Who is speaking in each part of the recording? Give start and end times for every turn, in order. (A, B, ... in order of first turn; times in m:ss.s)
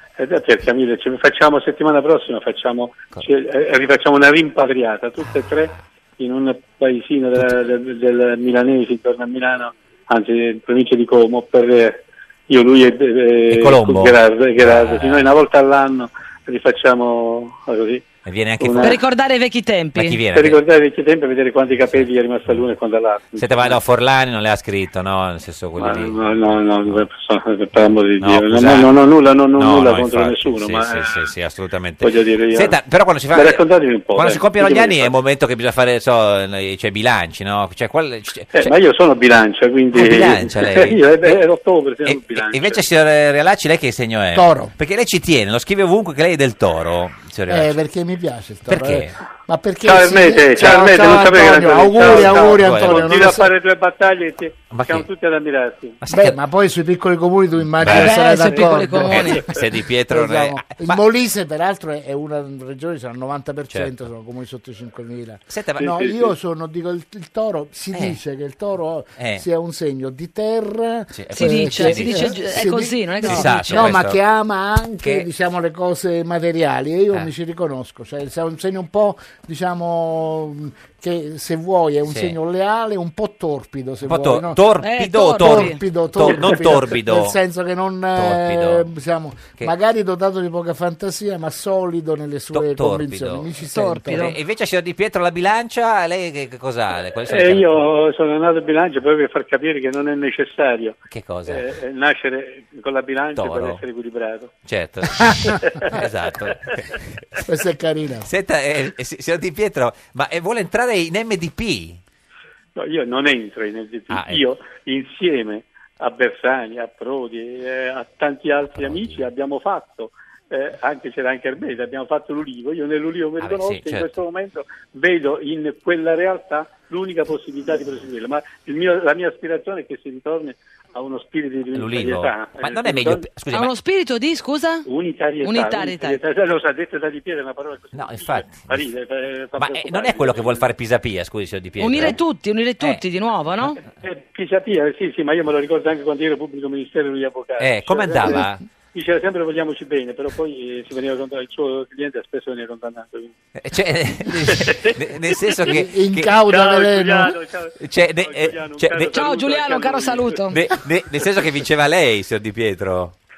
0:00.2-0:19.0 A
0:07.4-0:07.7 B
0:13.5-0:15.3 B
0:18.2-0:19.0 B
0:18.8-0:20.2 C
0:19.9-0:20.6 B
0:20.3-0:23.8 A
0:21.9-0:22.7 B
0:23.4-0:27.1 B
0:25.8-0:31.3 A
0:28.2-0:28.9 B
0:29.5-0:38.7 B
0:32.0-0:32.8 A
0:33.3-0:35.1 A
0:38.5-0:42.8 A
0:39.9-0:41.4 B
0:42.0-0:47.8 B
0:44.3-0:44.7 D
0:47.5-0:53.5 D
0:48.7-0:49.2 B
0:49.8-0:56.0 A
0:50.6-0:51.2 B
0:51.9-0:53.4 B
0:54.7-0:55.1 B
0:56.0-0:56.4 B
0:56.1-0:59.5 D
0:57.8-0:58.2 B
0:57.8-0:59.4 C
0:59.0-1:01.0 B
1:00.1-1:24.6 D
1:05.5-1:06.1 B
1:09.2-1:09.4 B
1:11.1-1:12.4 B
1:11.3-1:13.9 C
1:13.2-1:14.2 B
1:15.0-1:15.3 B
1:22.1-1:22.3 B
1:24.0-1:27.4 B
1:24.8-1:25.8 C
1:25.3-1:34.3 D
1:28.1-1:28.9 B
1:32.5-1:33.5 B
1:33.7-1:34.3 C
1:34.0-1:37.8 B
1:37.2-1:44.5 A
1:41.1-1:41.7 B
1:43.4-1:43.8 B
1:44.6-1:47.0 B
1:45.5-1:46.8 A
1:47.4-1:48.3 D
1:48.2-1:52.0 B
1:52.8-2:13.2 A
1:54.1-1:54.4 B
1:58.7-1:59.3 B
2:03.4-2:04.2 B
2:11.7-2:13.7 B
2:13.5-2:14.8 C
2:14.8-2:20.7 A
2:15.4-2:16.2 C
2:17.9-2:18.7 B
2:19.6-2:22.2 B
2:21.8-2:23.8 C
2:23.8-2:28.4 A
2:27.6-2:28.6 B
2:28.9-2:33.3 A
2:33.6-2:36.4 B
2:34.3-2:35.7 A
2:35.7-2:37.4 D
2:36.5-2:40.4 A
2:37.8-2:39.1 B
2:39.0-2:40.6 C
2:40.5-2:43.2 B